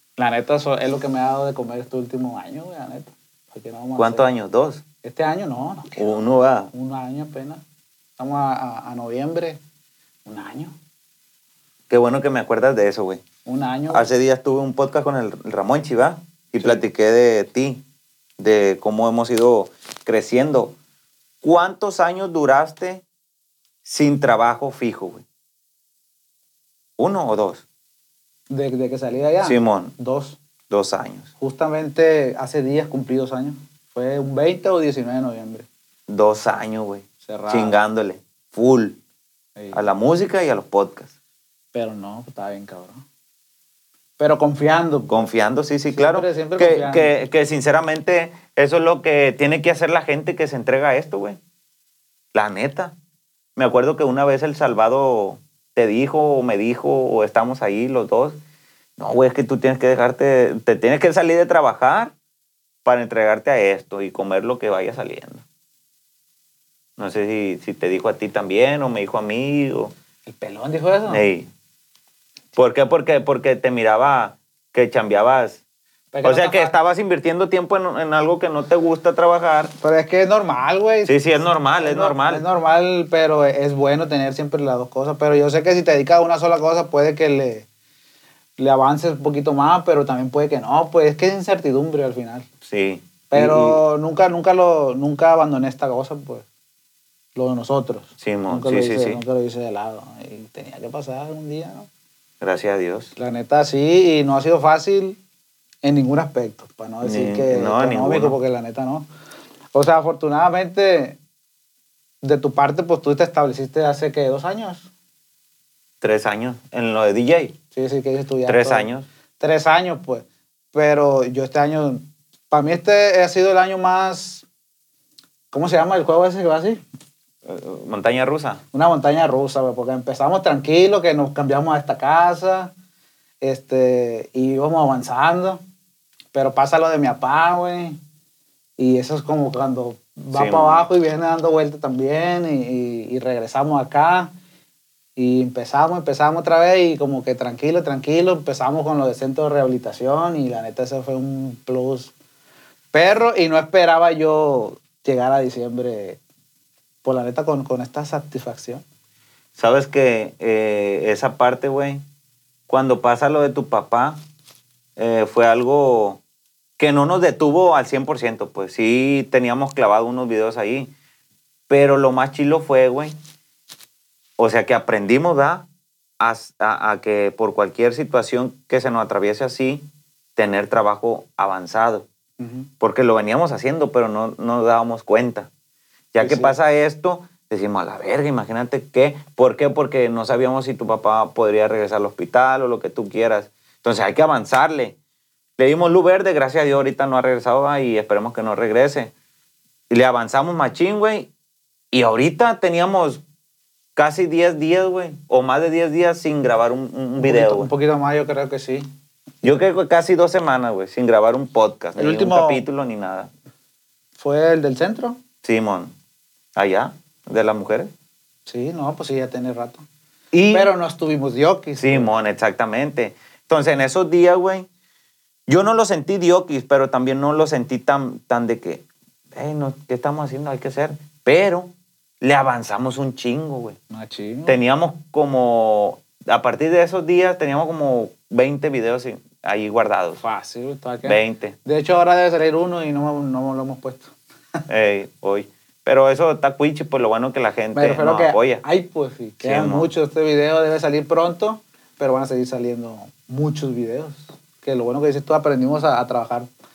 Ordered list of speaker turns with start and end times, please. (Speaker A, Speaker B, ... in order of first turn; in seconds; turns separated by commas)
Speaker A: 0.2-4.3, Speaker B: 4.0-4.8, Speaker A: 5.0-7.6, Speaker B: 6.0-6.7, Speaker A: 8.2-9.6, Speaker A: 10.2-10.7, Speaker B: 11.9-13.2, Speaker A: 13.4-14.1, Speaker B: 13.9-17.8, Speaker B: 18.4-20.8, Speaker B: 21.4-23.0, Speaker B: 23.8-25.2, Speaker B: 27.0-27.6, Speaker A: 28.5-30.4, Speaker B: 29.4-29.9, Speaker B: 30.7-31.3, Speaker A: 31.4-35.7, Speaker B: 36.1-39.0, Speaker A: 37.2-37.8, Speaker A: 39.6-39.8, Speaker B: 39.7-41.1, Speaker A: 41.7-43.0, Speaker A: 44.2-45.3, Speaker B: 45.1-51.4, Speaker A: 45.9-47.2, Speaker B: 52.3-52.9, Speaker B: 53.5-58.4, Speaker B: 59.0-62.1, Speaker B: 62.8-65.4, Speaker B: 67.0-69.9, Speaker A: 70.2-71.2, Speaker B: 71.1-71.5, Speaker B: 72.5-75.6, Speaker A: 76.1-76.8, Speaker B: 76.2-79.7, Speaker A: 79.8-81.2, Speaker B: 81.0-82.4, Speaker A: 81.8-87.7, Speaker A: 88.6-92.5, Speaker B: 92.6-93.8, Speaker A: 93.3-96.5, Speaker A: 97.3-101.9, Speaker B: 98.2-99.2, Speaker B: 102.4-103.1, Speaker A: 103.2-105.2, Speaker A: 105.8-109.1, Speaker B: 107.0-108.3, Speaker A: 109.7-111.2, Speaker A: 112.2-114.9, Speaker B: 116.0-117.5, Speaker A: 117.7-124.4, Speaker B: 118.5-119.1, Speaker A: 125.5-126.8, Speaker B: 127.4-128.6, Speaker A: 128.7-132.7, Speaker A: 133.4-135.6, Speaker A: 136.3-138.0, Speaker A: 138.8-144.3, Speaker B: 140.3-140.8, Speaker A: 145.2-152.1, Speaker A: 152.9-156.2, Speaker A: 157.0-158.8, Speaker B: 159.6-162.0, Speaker B: 162.7-164.2, Speaker B: 165.0-166.2, Speaker B: 166.8-170.9, Speaker B: 171.7-173.1, Speaker B: 174.4-175.7, Speaker B: 176.2-182.1, Speaker A: 182.4-182.7, Speaker B: 182.8-185.5, Speaker B: 186.1-194.9, Speaker A: 186.2-186.5, Speaker B: 195.6-199.1, Speaker B: 199.9-201.3, Speaker B: 201.9-203.2, Speaker B: 203.9-207.7, Speaker A: 207.2-208.9, Speaker B: 209.4-213.3, Speaker A: 212.0-212.6, Speaker A: 214.2-215.2, Speaker B: 215.4-215.9, Speaker B: 216.5-217.9, Speaker A: 218.5-219.8, Speaker B: 220.3-220.7, Speaker A: 220.5-222.1, Speaker B: 221.8-224.7, Speaker B: 225.5-233.8, Speaker A: 233.9-234.6, Speaker B: 234.5-240.2, Speaker A: 240.2-244.1, Speaker B: 241.0-241.6, Speaker B: 244.7-248.6, Speaker A: 247.7-256.5, Speaker B: 249.4-249.9